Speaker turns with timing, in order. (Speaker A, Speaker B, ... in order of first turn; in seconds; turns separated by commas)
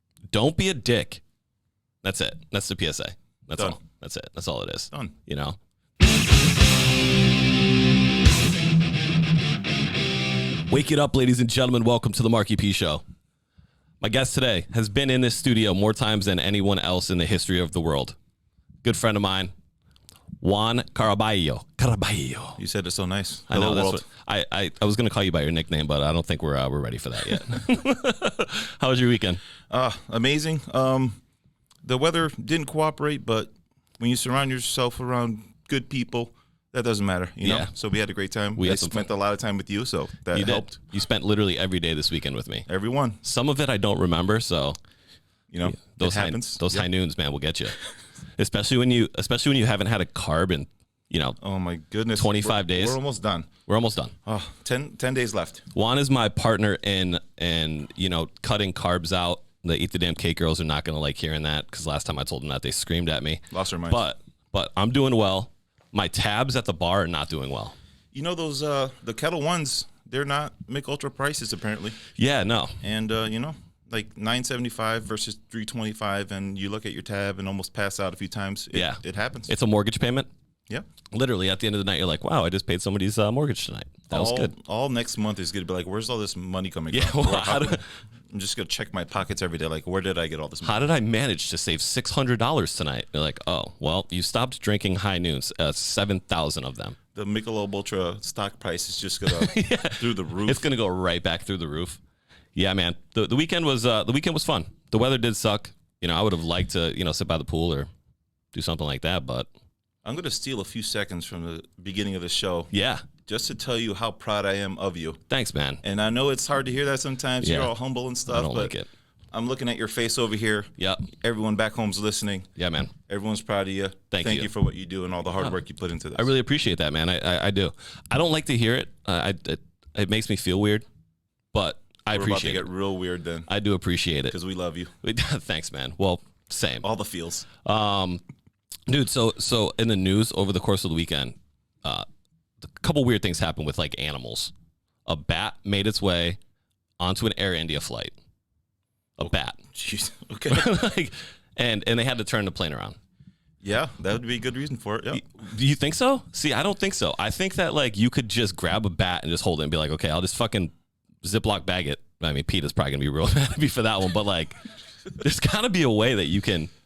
Speaker A: 0.3-1.2, Speaker A: 2.0-5.6, Speaker A: 10.7-13.0, Speaker A: 14.0-18.1, Speaker A: 18.8-19.5, Speaker A: 20.4-22.6, Speaker B: 22.6-24.1, Speaker A: 23.5-29.4, Speaker B: 29.7-31.2, Speaker B: 31.8-40.8, Speaker A: 37.4-37.7, Speaker A: 38.5-39.1, Speaker A: 40.3-42.6, Speaker B: 42.7-43.2, Speaker A: 43.2-44.8, Speaker B: 45.5-46.9, Speaker A: 45.6-47.7, Speaker A: 48.4-51.4, Speaker B: 51.4-53.5, Speaker A: 52.1-53.0, Speaker A: 53.6-54.1, Speaker B: 54.2-55.6, Speaker A: 55.7-67.7, Speaker B: 63.5-64.0, Speaker B: 68.1-72.0, Speaker A: 72.1-72.8, Speaker B: 72.8-79.5, Speaker A: 78.7-80.3, Speaker A: 81.1-84.5, Speaker B: 84.1-90.9, Speaker A: 86.9-87.9, Speaker A: 90.6-97.0, Speaker B: 97.1-100.7, Speaker A: 99.3-102.0, Speaker A: 102.5-107.9, Speaker A: 108.5-109.5, Speaker B: 110.0-112.7, Speaker A: 112.7-113.0, Speaker B: 113.2-115.2, Speaker A: 115.3-115.8, Speaker B: 115.8-118.7, Speaker A: 117.4-117.7, Speaker A: 118.2-118.9, Speaker B: 119.3-122.5, Speaker A: 120.8-121.1, Speaker A: 122.6-122.9, Speaker B: 123.1-126.3, Speaker A: 124.1-124.5, Speaker A: 126.1-130.8, Speaker A: 131.5-132.7, Speaker B: 132.1-133.5, Speaker A: 133.5-134.3, Speaker B: 134.3-134.9, Speaker A: 135.0-136.9, Speaker B: 136.8-137.5, Speaker A: 137.6-138.2, Speaker A: 138.9-142.1, Speaker A: 142.6-144.5, Speaker A: 145.1-146.4, Speaker A: 147.0-148.1, Speaker A: 149.2-149.6, Speaker B: 149.2-150.7, Speaker A: 150.5-153.0, Speaker B: 153.6-155.2, Speaker A: 155.1-160.7, Speaker A: 161.2-164.6, Speaker A: 165.1-166.7